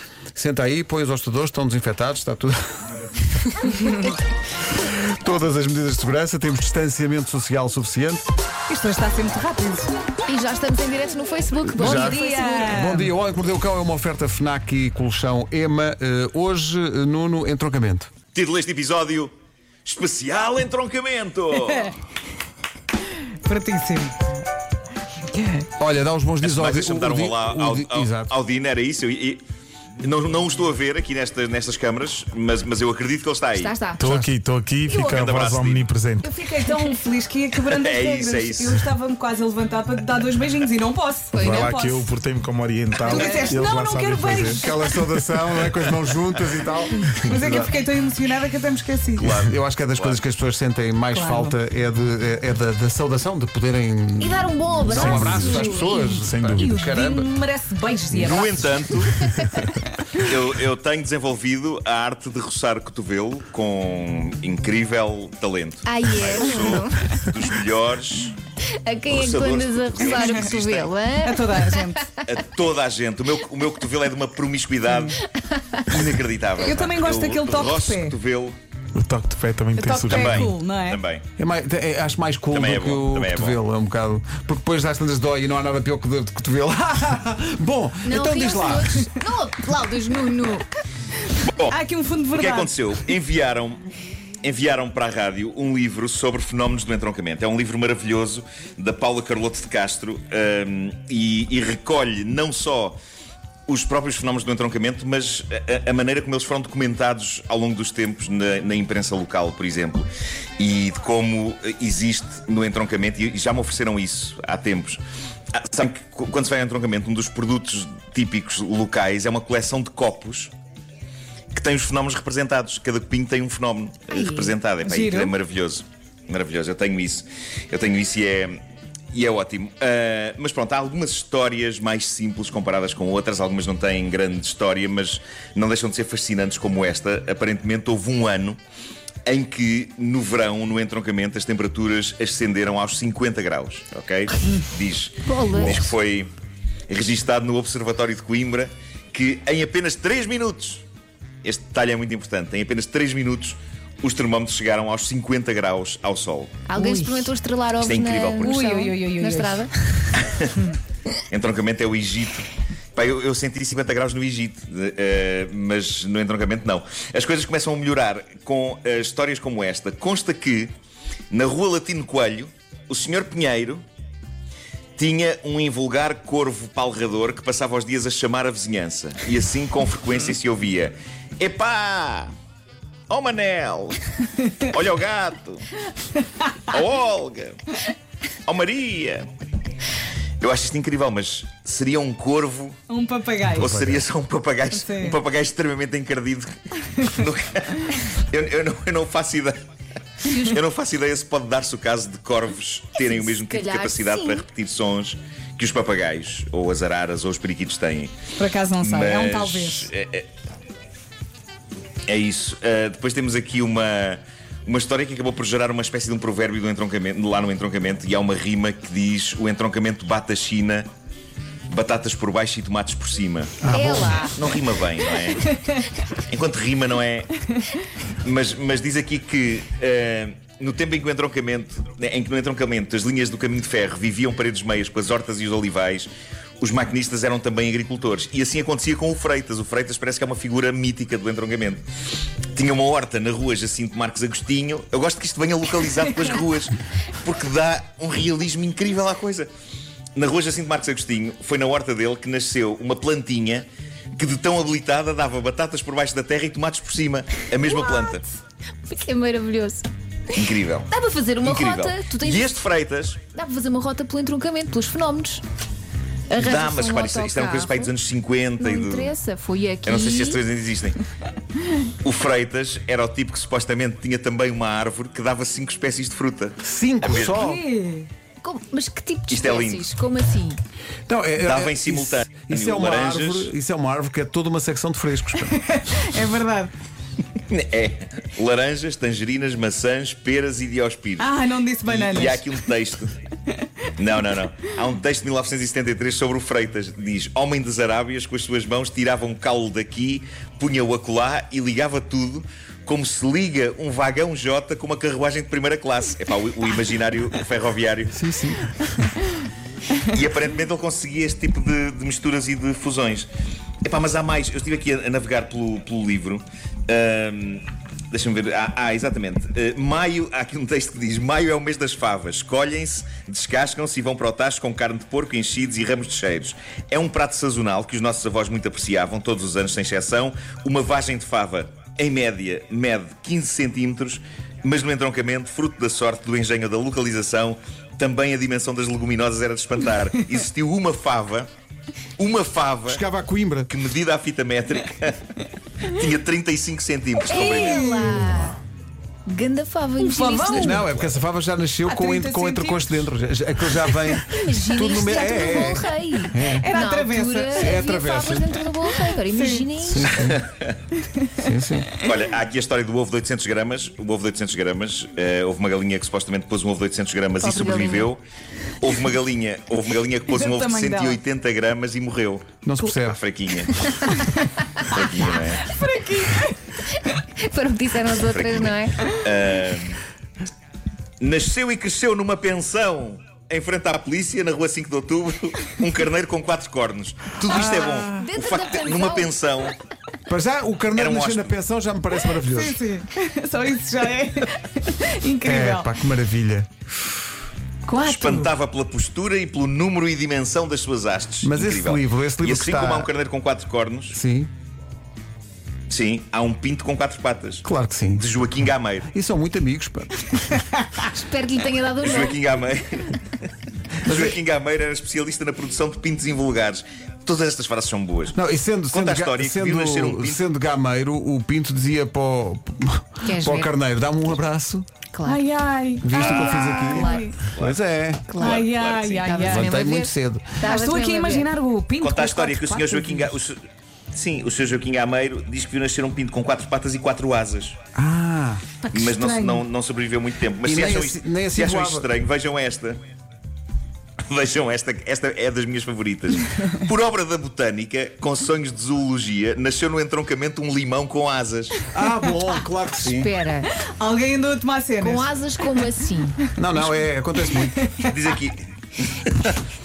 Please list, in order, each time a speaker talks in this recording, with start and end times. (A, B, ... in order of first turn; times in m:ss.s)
0:00.4-0:04.2 A
0:04.8-0:08.2 A
0:08.7-0:09.9 B
0:10.3-0:12.8 C
0:11.7-0:18.1 A
0:11.8-0:13.1 B
0:18.3-0:19.3 D
0:19.8-0:22.0 D
0:21.6-0:22.0 B
0:23.4-0:24.2 B
0:25.3-0:25.7 B
0:25.8-0:28.3 A
0:26.4-0:29.4 D
0:30.0-0:33.8 D
0:33.6-0:34.1 C
0:34.0-0:36.3 E
0:34.0-0:34.3 A
0:34.9-0:35.9 D
0:36.2-0:42.1 B
0:37.7-0:38.8 D
0:41.3-0:44.6 E
0:41.4-0:42.0 C
0:43.0-0:44.7 B
0:44.5-0:47.7 A
0:47.2-0:49.3 B
0:49.2-0:50.2 D
0:49.4-0:57.3 A
0:51.1-0:51.6 B
0:54.2-0:55.9 C
0:54.9-0:58.7 B
0:56.0-0:56.7 E
0:58.2-0:59.3 D
1:00.2-1:08.4 D
1:05.9-1:07.2 C
1:08.8-1:11.8 C
1:09.1-1:10.9 D
1:11.2-1:12.1 B
1:12.3-1:15.2 D
1:15.2-1:16.1 C
1:15.9-1:18.6 D
1:16.6-1:18.2 B
1:19.0-1:20.5 E
1:19.8-1:21.0 B
1:20.1-1:21.2 D
1:21.4-1:29.1 A
1:22.5-1:23.6 D
1:28.0-1:30.6 C
1:31.4-1:31.8 D
1:31.7-1:32.8 B
1:32.4-1:33.8 D
1:34.4-1:43.0 D
1:43.7-1:55.0 D
1:55.6-2:00.5 D
2:01.5-2:08.6 D
2:04.1-2:04.5 C
2:04.8-2:05.3 B
2:09.1-2:18.6 D
2:19.3-2:26.3 D
2:25.3-2:25.9 C
2:26.9-2:30.8 D
2:31.4-2:36.6 D
2:36.7-2:39.7 C
2:36.8-2:37.3 B
2:37.8-2:38.8 D
2:38.4-2:39.7 B
2:40.2-2:40.6 D
2:41.3-2:50.7 D
2:51.3-2:53.8 D
2:55.0-3:02.3 D
3:03.1-3:04.0 D
3:04.5-3:05.7 D
3:06.7-3:07.6 D
3:08.5-3:09.3 D
3:10.4-3:12.8 D
3:12.9-3:13.7 B
3:13.5-3:19.6 D
3:13.6-3:14.0 A
3:14.7-3:15.2 B
3:20.2-3:20.6 C
3:20.3-3:28.2 D
3:23.2-3:24.4 C
3:28.4-3:29.9 B
3:28.8-3:30.3 D
3:32.1-3:40.9 D
3:41.7-3:45.6 D
3:43.6-3:44.2 A
3:43.7-3:44.4 C
3:46.2-3:47.3 D
3:48.2-3:56.1 D
3:56.6-4:01.8 D
4:02.5-4:09.5 D
4:10.2-4:18.3 D
4:17.7-4:18.1 C
4:18.8-4:22.5 C
4:20.4-4:20.9 D
4:21.4-4:23.2 D
4:23.3-4:25.4 C
4:26.3-4:27.9 C
4:26.4-4:29.1 D
4:28.6-4:30.4 C
4:29.8-4:31.0 D
4:32.0-4:37.4 D
4:36.6-4:37.6 A
4:37.2-4:38.1 B
4:38.4-4:40.6 C
4:39.3-4:39.9 D
4:41.1-4:45.6 A
4:41.4-4:43.5 D
4:45.6-4:46.7 B
4:47.5-4:51.3 D
4:51.2-4:52.6 B
4:51.8-4:53.2 D
4:54.0-5:08.2 D
5:08.1-5:08.7 A
5:10.0-5:13.3 D
5:13.8-5:41.5 D
5:42.2-5:43.0 D
5:42.9-5:43.7 A
5:43.7-5:48.0 D
5:47.3-5:48.6 C
5:47.3-5:48.3 B
5:48.1-5:48.5 A
5:49.3-5:50.8 C
5:50.0-5:50.9 B
5:50.5-5:56.7 A
5:50.8-5:51.1 D
5:51.9-5:53.0 B
5:54.2-6:00.2 C
5:56.4-5:57.9 B
5:57.5-5:58.6 A
5:58.8-5:59.7 B
5:59.8-6:00.4 A
6:00.3-6:00.8 D
6:01.4-6:01.9 A
6:02.0-6:08.2 D
6:07.4-6:08.1 C
6:08.8-6:13.9 D
6:10.3-6:11.2 B
6:12.6-6:13.2 A
6:14.8-6:15.7 D
6:15.6-6:17.1 B
6:17.4-6:19.0 C
6:18.2-6:20.0 D
6:21.2-6:29.8 D
6:27.5-6:28.2 A
6:27.6-6:29.3 C
6:30.3-6:32.8 A
6:30.9-6:31.6 D
6:32.4-6:35.9 B
6:35.4-6:36.7 A
6:37.9-6:38.4 C
6:38.0-6:44.2 D
6:41.4-6:43.1 A
6:44.1-6:44.5 A
6:45.9-6:49.1 D
6:47.6-6:48.3 A
6:49.1-6:50.6 A
6:51.0-6:52.4 C
6:52.0-6:53.3 D
6:54.0-6:58.4 D
6:54.0-6:54.4 A
6:58.3-7:04.9 A
6:58.9-7:00.4 D
7:03.2-7:03.7 C
7:05.1-7:05.4 C
7:05.2-7:07.4 B
7:06.0-7:08.2 A
7:06.1-7:07.2 C
7:06.1-7:06.9 D
7:07.5-7:09.4 D
7:08.3-7:08.6 C
7:08.4-7:09.8 B
7:09.3-7:11.5 C
7:09.4-7:10.6 A
7:10.6-7:13.3 B
7:12.0-7:13.6 D
7:14.1-7:17.8 D
7:18.0-7:18.6 A
7:18.9-7:23.0 D
7:18.9-7:19.6 B
7:20.6-7:22.1 A
7:24.3-7:31.9 D
7:31.9-7:33.3 A
7:33.0-7:33.7 C
7:33.8-7:35.4 B
7:35.0-7:36.4 C
7:36.6-7:37.8 A
7:37.6-7:38.1 B
7:38.1-7:39.6 D